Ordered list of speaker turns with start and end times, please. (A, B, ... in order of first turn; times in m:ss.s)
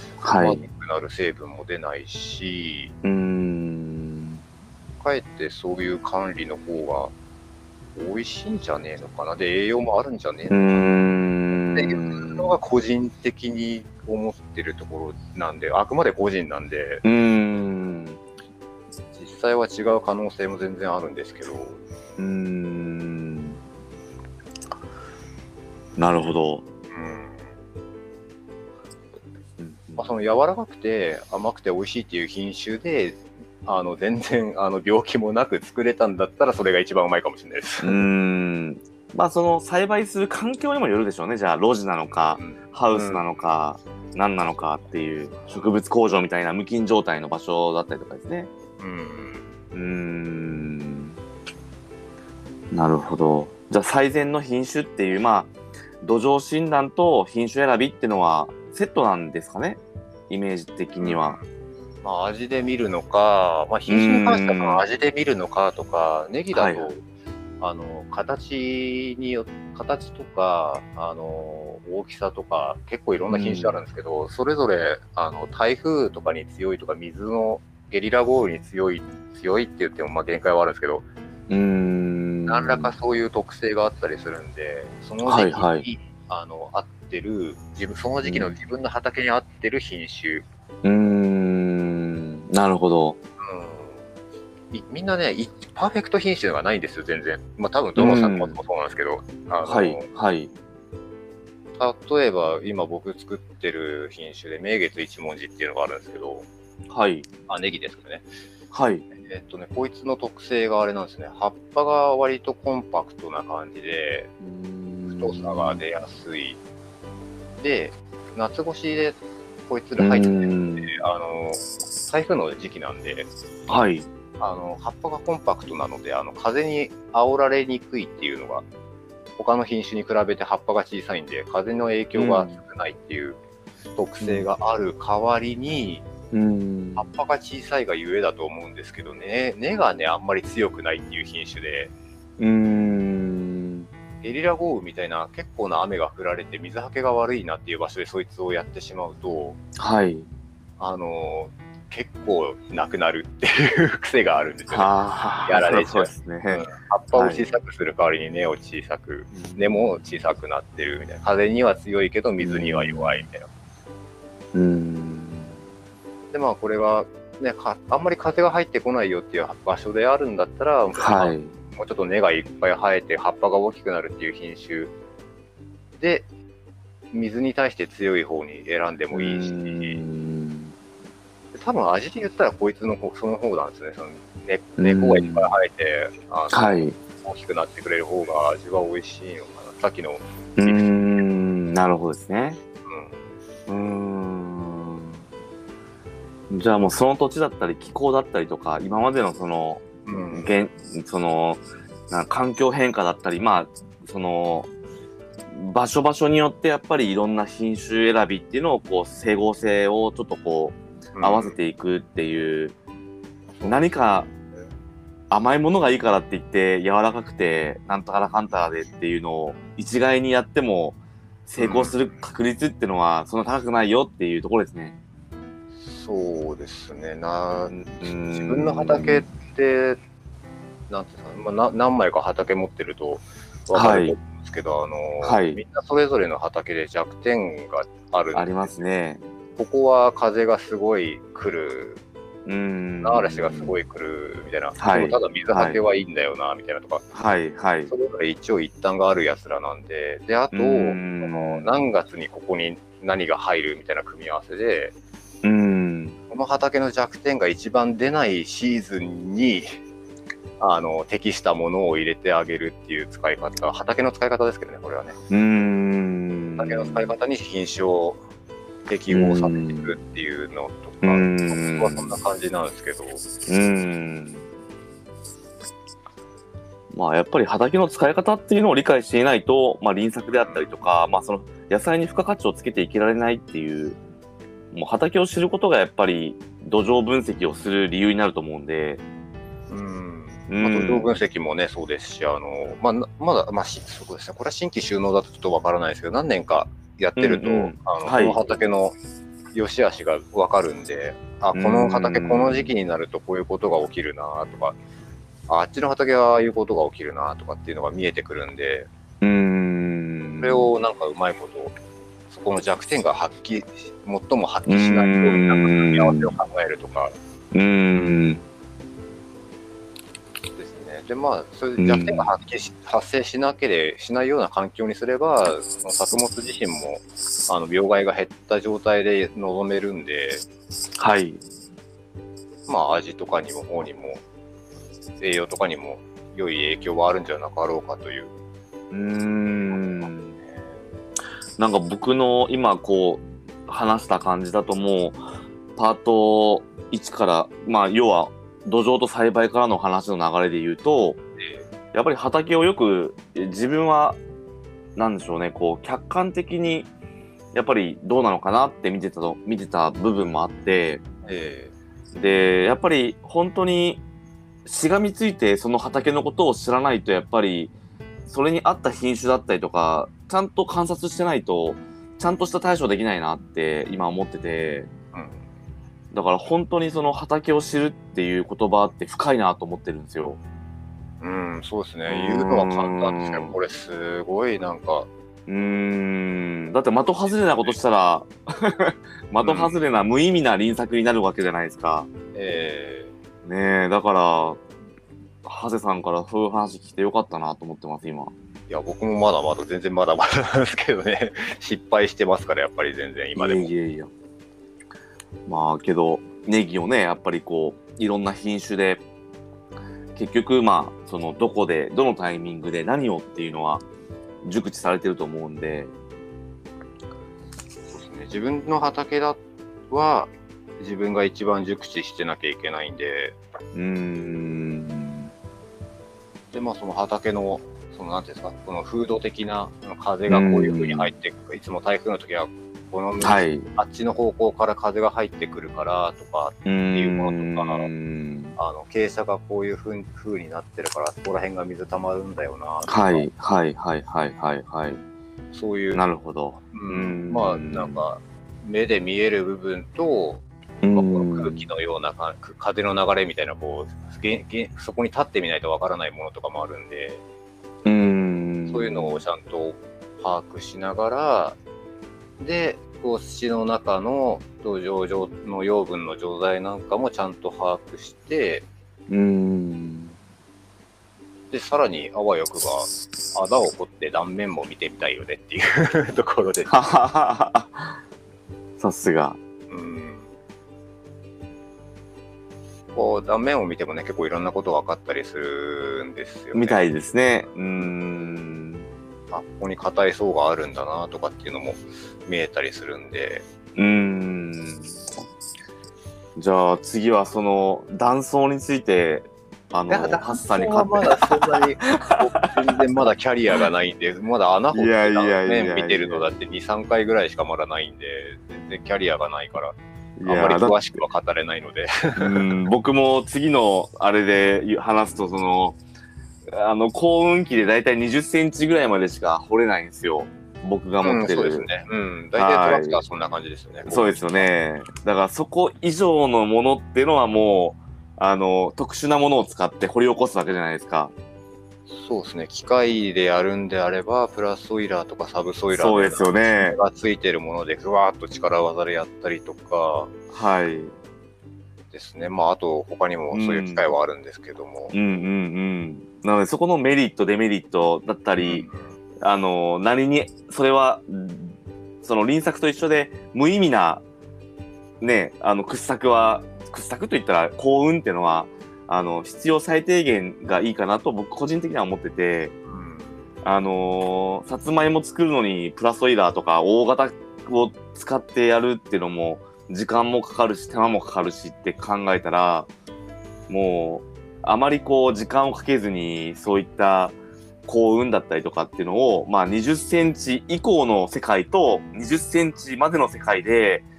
0:00.2-0:00.6 A
0:00.3-0:02.9 B
0:03.0-0:04.4 A
0:05.0-0:07.1 B
0:07.9-0:11.0 B
0:10.5-0:12.6 A
0:11.7-0:17.0 B
0:17.0-0:18.2 A
0:19.1-0:21.8 B
0:22.2-0:23.6 A
0:26.0-0:26.6 A
0:26.9-0:27.4 B
0:29.6-0:30.1 A
0:30.0-0:38.0 B
0:37.8-0:48.5 A
0:42.3-0:43.2 B
0:48.8-0:49.4 B
0:49.7-0:51.2 A
0:52.7-1:01.4 A
1:01.0-1:01.4 B
1:02.0-1:07.0 B
1:03.9-1:04.8 A
1:06.5-1:06.9 A
1:07.6-1:21.0 B
1:13.3-1:13.8 A
1:21.5-1:22.9 A
1:22.5-1:30.4 B
1:25.2-1:25.8 A
1:28.2-1:28.6 A
1:30.8-1:33.2 A
1:33.4-1:34.0 B
1:34.7-1:40.1 B
1:38.0-1:38.6 A
1:39.6-1:40.5 A
1:41.8-1:46.4 B
1:46.9-1:47.3 A
1:47.5-1:48.3 B
1:48.7-1:49.0 A
1:49.2-1:54.3 B
1:54.4-1:55.8 A
1:55.1-1:56.6 B
1:57.6-2:03.3 B
2:00.0-2:00.9 A
2:03.7-2:04.1 A
2:04.4-2:08.6 B
2:09.4-2:13.4 B
2:12.1-2:12.6 A
2:14.0-2:16.0 B
2:14.2-2:14.4 A
2:16.3-2:17.1 A
2:17.0-2:21.9 B
2:22.4-2:23.9 A
2:24.2-2:29.6 B
2:29.8-2:30.3 A
2:30.8-2:43.5 B
2:34.7-2:37.5 A
2:39.3-2:40.2 A
2:42.4-2:43.2 A
2:44.5-2:45.5 A
2:46.3-2:54.9 B
2:51.0-2:51.5 A
2:56.0-2:56.2 B
2:57.1-3:00.0 B
2:59.1-3:00.7 A
3:01.5-3:11.0 B
3:04.8-3:05.6 A
3:06.5-3:07.0 A
3:10.6-3:12.6 A
3:12.9-3:13.1 B
3:13.7-3:15.2 A
3:16.5-3:24.7 A
3:20.0-3:20.5 B
3:25.5-3:32.7 A
3:31.1-3:31.6 B
3:33.5-3:33.8 B
3:33.6-3:34.3 A
3:35.3-3:44.9 A
3:41.6-3:42.0 B
3:45.7-3:50.0 B
3:47.7-3:49.2 A
3:50.9-3:58.8 B
3:53.7-3:54.2 A
3:55.2-3:55.6 A
3:58.3-3:59.2 A
3:59.6-4:02.0 B
4:02.4-4:03.8 A
4:03.0-4:07.0 B
4:04.8-4:05.8 A
4:07.1-4:07.9 A
4:07.9-4:14.9 B
4:10.5-4:11.7 A
4:15.4-4:16.2 A
4:16.3-4:19.8 B
4:20.6-4:25.2 B
4:25.3-4:27.1 A
4:26.6-4:28.2 B
4:28.9-4:33.2 B
4:29.1-4:30.0 A
4:31.0-4:32.2 A
4:33.4-4:34.4 A
4:36.9-4:44.0 A
4:40.3-4:40.6 B
4:44.7-4:49.0 A
4:49.7-4:59.0 B
4:50.5-4:51.1 A
4:57.2-4:58.4 A
4:59.5-5:04.8 B
5:01.5-5:02.7 A
5:05.5-5:08.9 B
5:09.2-5:10.7 A
5:10.4-5:11.7 B
5:12.3-5:17.1 B
5:14.6-5:16.4 A
5:17.5-5:18.4 A
5:20.6-5:30.4 B
5:21.8-5:22.3 A
5:31.0-5:31.4 A
5:32.7-5:34.2 B
5:35.2-5:38.3 B
5:38.9-5:40.4 A
5:39.5-5:40.8 B
5:41.6-5:45.2 A
5:45.8-5:51.2 A
5:51.4-5:51.7 B
5:51.9-5:54.2 A
5:55.0-5:56.9 A
5:57.5-6:01.0 A
6:01.2-6:01.7 B
6:02.1-6:04.0 A
6:04.6-6:07.7 A
6:08.3-6:14.9 A
6:15.1-6:15.4 B
6:16.1-6:20.4 A
6:21.2-6:25.1 B
6:22.1-6:23.5 A
6:25.5-6:32.1 A
6:27.0-6:27.8 B
6:29.4-6:29.8 B
6:32.3-6:33.1 B
6:33.4-6:34.6 A
6:35.4-6:38.3 A
6:38.7-6:43.7 B
6:43.4-6:44.1 A
6:45.4-6:49.0 A
6:50.1-6:53.8 A
6:54.4-6:55.9 A
6:57.9-7:03.4 B
7:03.7-7:05.3 A
7:06.5-7:17.9 B
7:10.3-7:11.1 A
7:13.2-7:13.7 A
7:16.6-7:18.6 A
7:18.6-7:23.3 B
7:22.8-7:25.0 A
7:25.5-7:26.0 B
7:25.9-7:28.0 A
7:26.7-7:37.2 B
7:30.8-7:31.6 A
7:37.8-7:39.2 A
7:38.7-7:41.6 B
7:42.4-7:48.6 B
7:49.1-7:50.1 A
7:51.5-7:56.7 B
7:56.7-7:58.0 A
7:58.8-7:59.4 A
7:59.7-8:00.3 B
8:02.9-8:06.8 B
8:06.5-8:08.8 A
8:07.5-8:07.9 B
8:09.3-8:13.4 B
8:13.8-8:15.0 A
8:16.4-8:22.5 A
8:19.9-8:32.5 B
8:24.7-8:26.3 A
8:30.2-8:30.9 A
8:32.2-8:35.8 A
8:36.5-8:41.7 A
8:41.0-8:44.5 B
8:42.4-8:43.0 A
8:43.9-8:51.1 A
8:51.9-9:00.1 B
8:55.7-8:56.8 A
9:00.3-9:00.9 A
9:01.9-9:04.9 B
9:03.3-9:03.9 A
9:04.9-9:08.7 A
9:08.4-9:09.0 B
9:09.2-9:14.0 A
9:15.0-9:22.5 A
9:22.7-9:23.2 B
9:23.4-9:32.7 A
9:33.5-9:43.9 A